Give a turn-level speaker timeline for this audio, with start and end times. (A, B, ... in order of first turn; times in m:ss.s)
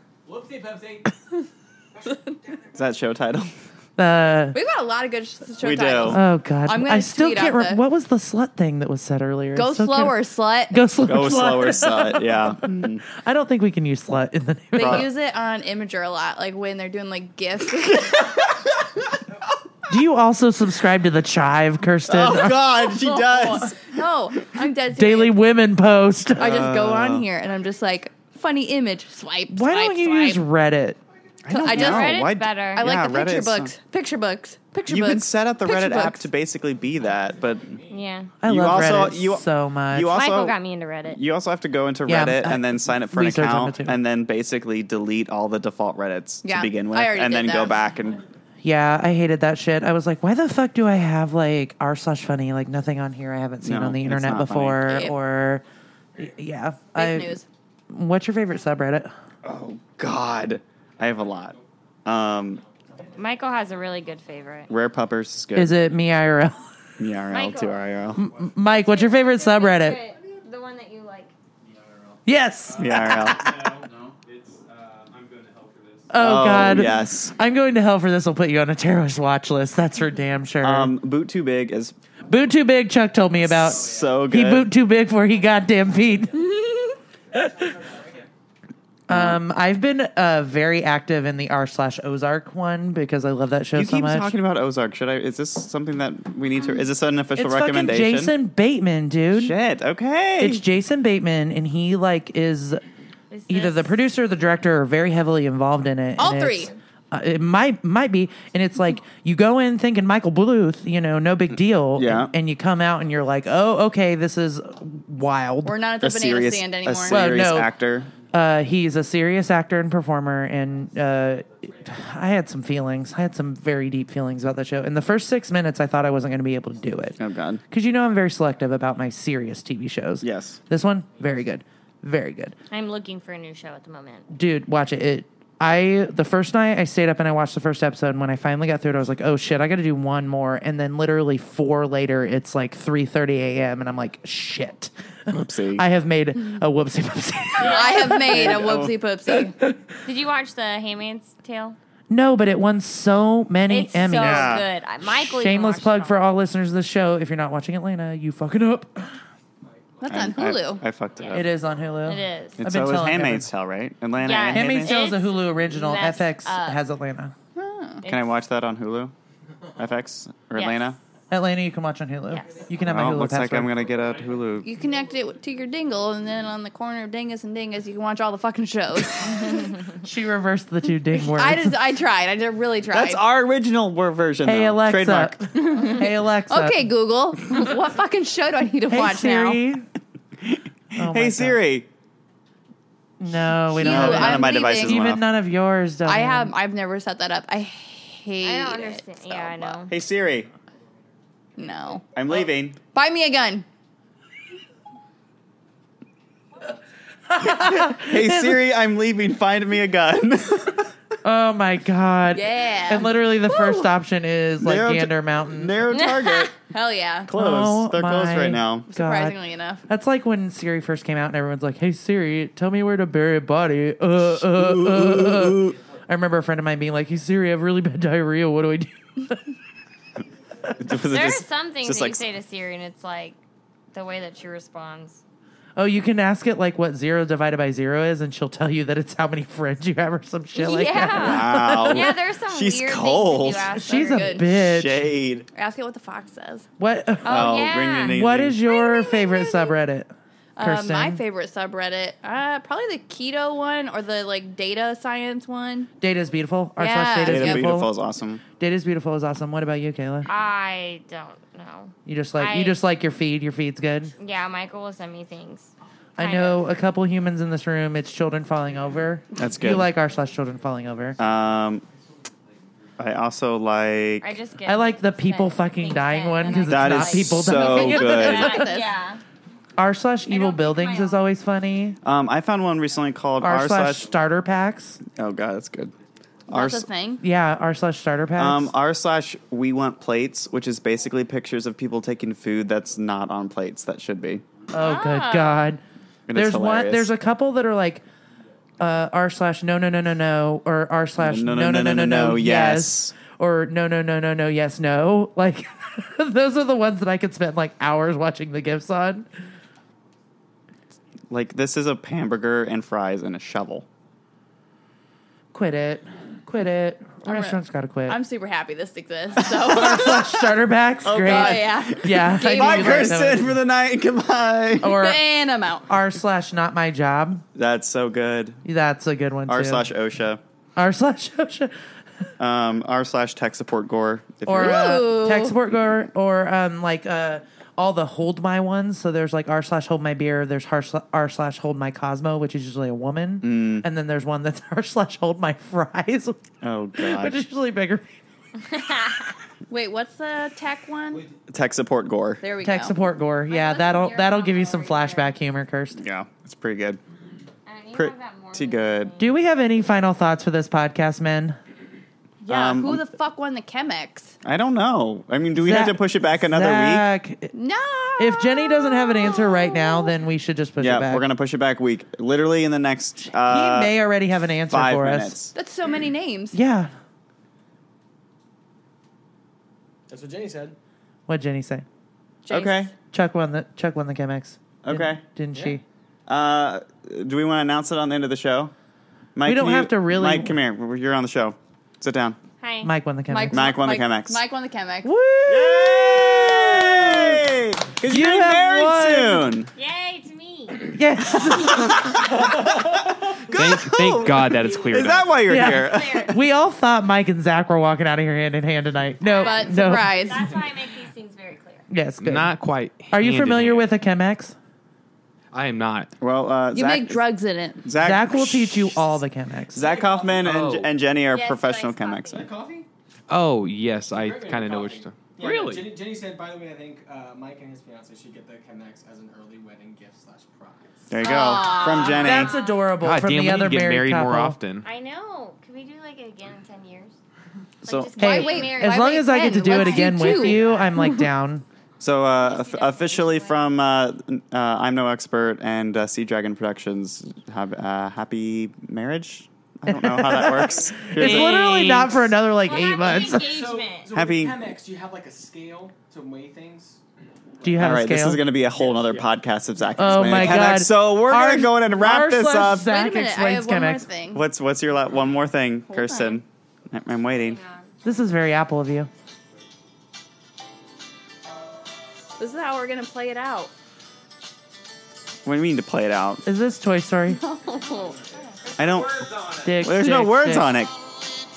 0:00.3-0:01.0 A
0:02.7-0:03.5 B
0:04.0-0:04.6 C
0:04.5-0:07.8 D
0:05.6-0:06.2 B
0:06.1-0:10.2 C
0:09.6-0:10.8 D
0:10.7-0:15.1 C
0:11.0-0:13.0 B
0:14.7-0:18.5 D
0:14.8-0:15.1 B
0:19.9-0:22.7 C
0:22.1-0:23.8 B
0:22.6-0:25.4 D
0:24.9-0:26.4 C
0:26.4-0:27.3 B
0:26.4-0:30.4 D
0:29.5-0:31.0 C
0:31.4-0:33.7 B
0:31.5-0:36.3 D
0:31.7-0:32.9 E
0:34.9-0:37.8 B
0:37.9-0:38.4 E
0:38.4-0:40.2 C
0:38.4-0:40.6 B
0:40.1-0:41.2 E
0:41.1-0:48.2 B
0:42.1-0:44.0 C
0:46.4-0:47.8 D
0:48.6-0:55.6 C
0:53.6-0:55.0 B
0:54.8-0:55.1 D
0:56.2-0:57.4 C
0:57.0-0:57.4 D
0:57.9-0:59.1 C
0:59.4-1:02.6 B
1:03.2-1:04.7 E
1:04.7-1:05.8 B
1:05.6-1:06.7 C
1:07.0-1:08.3 B
1:07.3-1:07.8 E
1:08.2-1:10.0 C
1:08.6-1:11.3 E
1:12.3-1:13.8 C
1:12.8-1:13.5 B
1:14.1-1:16.1 F
1:16.1-1:20.9 C
1:16.2-1:17.4 B
1:20.6-1:22.0 B
1:22.3-1:26.5 C
1:23.4-1:24.7 B
1:26.6-1:27.0 D
1:27.3-1:27.7 C
1:29.1-1:29.4 B
1:29.1-1:34.3 C
1:33.8-1:38.4 B
1:37.4-1:39.5 C
1:39.3-1:40.6 B
1:40.4-1:42.8 C
1:43.3-1:44.0 E
1:43.5-1:55.9 C
1:46.2-1:46.7 D
1:52.0-1:52.3 B
1:55.6-1:57.3 D
1:56.0-1:58.1 B
1:57.1-1:57.7 C
1:58.3-2:07.2 C
2:07.2-2:07.6 B
2:07.7-2:12.6 C
2:10.2-2:10.6 B
2:12.7-2:14.3 E
2:14.3-2:28.6 C
2:25.3-2:25.8 B
2:27.6-2:28.1 E
2:27.6-2:29.6 D
2:28.3-2:29.0 B
2:29.6-2:30.0 C
2:30.1-2:31.8 E
2:32.1-2:39.2 C
2:33.7-2:36.2 E
2:34.2-2:34.7 B
2:40.0-2:40.3 A
2:40.0-2:40.8 D
2:40.1-2:41.5 B
2:41.3-2:43.5 C
2:42.0-2:42.6 E
2:42.6-2:45.1 B
2:44.2-2:46.8 E
2:44.4-2:47.3 C
2:47.6-2:48.0 D
2:48.0-2:48.3 E
2:48.0-2:49.1 B
2:49.8-2:51.0 B
2:50.5-2:51.0 E
2:51.3-2:53.8 C
2:52.3-2:52.7 E
2:52.8-2:54.7 B
2:54.6-2:59.7 D
2:59.9-3:01.8 C
3:01.2-3:03.2 D
3:02.9-3:05.4 B
3:04.4-3:06.9 C
3:05.6-3:09.6 D
3:08.9-3:09.9 C
3:10.4-3:11.9 B
3:11.0-3:11.6 C
3:13.2-3:16.5 C
3:13.7-3:15.3 B
3:13.7-3:15.0 D
3:16.0-3:19.6 D
3:18.4-3:20.0 E
3:19.4-3:20.5 B
3:21.6-3:23.7 D
3:22.2-3:22.8 B
3:27.3-3:28.6 C
3:27.4-3:30.9 B
3:31.2-3:35.9 C
3:32.3-3:33.9 D
3:34.6-3:36.5 B
3:35.9-3:36.5 E
3:36.7-3:37.3 D
3:37.3-3:38.9 B
3:37.4-3:39.4 C
3:38.9-3:39.8 D
3:39.9-3:49.5 C
3:44.3-3:45.8 B
3:50.7-3:52.3 B
3:50.9-3:53.4 E
3:53.9-3:55.2 E
3:55.8-4:02.2 C
4:00.5-4:04.4 E
4:01.1-4:03.9 B
4:03.7-4:05.1 C
4:03.8-4:04.4 D
4:04.4-4:05.5 B
4:05.5-4:06.7 D
4:06.8-4:11.2 C
4:07.2-4:08.6 B
4:07.2-4:09.7 E
4:08.8-4:09.6 D
4:10.6-4:15.9 D
4:16.0-4:17.9 C
4:16.8-4:17.7 D
4:17.3-4:18.4 B
4:18.5-4:20.3 C
4:20.3-4:22.8 E
4:22.1-4:24.1 C
4:24.2-4:26.6 E
4:26.2-4:31.2 C
4:29.4-4:29.9 B
4:31.2-4:31.8 B
4:33.0-4:34.3 B
4:34.2-4:39.2 E
4:34.7-4:38.8 C
4:36.7-4:38.5 B
4:37.6-4:38.9 D
4:39.8-4:42.0 C
4:40.3-4:41.2 E
4:42.0-4:44.1 B
4:43.4-4:45.0 C
4:45.0-4:45.9 B
4:46.5-4:46.9 B
4:46.5-4:47.2 D
4:47.2-4:48.7 C
4:48.4-4:54.6 B
4:54.7-4:55.8 C
4:54.8-4:55.8 E
4:56.3-4:57.1 B
4:56.3-4:58.0 C
4:58.8-5:09.3 C
5:01.2-5:03.2 B
5:11.3-5:13.9 B
5:15.5-5:18.2 C
5:17.2-5:20.5 D
5:19.4-5:19.7 B
5:19.6-5:23.6 C
5:21.0-5:25.0 B
5:21.2-5:23.2 D
5:24.8-5:25.2 C
5:24.8-5:25.9 D
5:25.9-5:27.4 C
5:27.6-5:28.6 B
5:28.6-5:29.9 C
5:29.5-5:30.4 B
5:30.8-5:31.7 C
5:32.4-5:35.0 B
5:34.5-5:46.4 C
5:34.6-5:35.6 D
5:43.4-5:43.9 B
5:46.6-5:47.4 B
5:47.0-5:48.0 C
5:48.6-5:49.3 E
5:49.7-5:51.3 D
5:51.5-5:52.4 B
5:52.4-5:53.0 D
5:52.6-5:56.0 C
5:53.5-5:55.4 E
5:56.0-5:57.0 B
5:57.7-5:59.3 E
5:57.9-5:59.1 B
5:59.2-6:01.6 C
6:02.4-6:04.4 D
6:02.5-6:03.1 B
6:04.4-6:07.1 B
6:05.6-6:07.5 C
6:07.5-6:10.1 D
6:08.2-6:11.2 C
6:10.8-6:14.0 B
6:13.2-6:15.4 C
6:14.7-6:15.5 B
6:15.5-6:16.6 D
6:16.5-6:16.9 C
6:20.1-6:20.8 A
6:21.3-6:21.8 C
6:22.5-6:22.9 D
6:22.5-6:22.9 B
6:23.1-6:25.8 C
6:24.8-6:25.2 B
6:25.5-6:25.8 A
6:26.3-6:28.7 B
6:29.4-6:32.4 B
6:29.5-6:30.6 C
6:32.6-6:32.9 E
6:32.8-6:33.7 C
6:33.3-6:35.1 D
6:33.5-6:34.4 B
6:35.0-6:37.5 C
6:35.5-6:39.7 B
6:38.0-6:39.5 C
6:39.8-6:40.9 E
6:40.8-6:42.3 C
6:41.5-6:42.8 B
6:43.4-6:46.4 B
6:43.5-6:45.6 F
6:45.4-6:50.6 C
6:45.8-6:46.4 E
6:49.2-6:51.9 E
6:49.4-6:50.6 D
6:51.9-6:52.6 C
6:52.2-6:53.9 F
6:53.1-6:54.6 C
6:55.5-6:56.1 F
6:56.2-6:57.2 B
6:56.7-6:57.9 D
6:57.8-6:59.2 B
6:57.9-6:59.9 C
6:59.7-7:02.5 B
6:59.8-7:00.5 A
7:00.3-7:00.9 F
7:01.2-7:02.5 E
7:02.3-7:02.9 A
7:03.3-7:05.9 F
7:04.1-7:11.8 A
7:11.1-7:12.5 B
7:11.2-7:12.4 D
7:11.3-7:12.9 E
7:12.0-7:14.6 C
7:13.0-7:14.9 F
7:14.8-7:17.2 E
7:17.8-7:18.5 B
7:17.8-7:19.0 E
7:18.2-7:21.6 C
7:18.2-7:20.8 D
7:19.7-7:20.9 E
7:22.0-7:31.8 B
7:22.3-7:23.6 E
7:29.9-7:33.6 C
7:31.3-7:34.1 E
7:33.0-7:37.0 A
7:34.1-7:34.6 B
7:37.6-7:38.0 A
7:37.6-7:38.4 C
7:37.8-7:42.9 B
7:38.5-7:40.8 A
7:40.0-7:44.1 C
7:42.8-7:44.4 D
7:44.3-7:47.6 B
7:45.9-7:46.4 D
7:47.4-7:47.9 E
7:48.0-7:49.1 C
7:52.4-7:53.7 D
7:55.4-7:56.4 B
7:56.4-7:57.4 C
7:57.3-7:58.2 D
7:58.8-8:01.0 B
7:59.6-8:00.7 C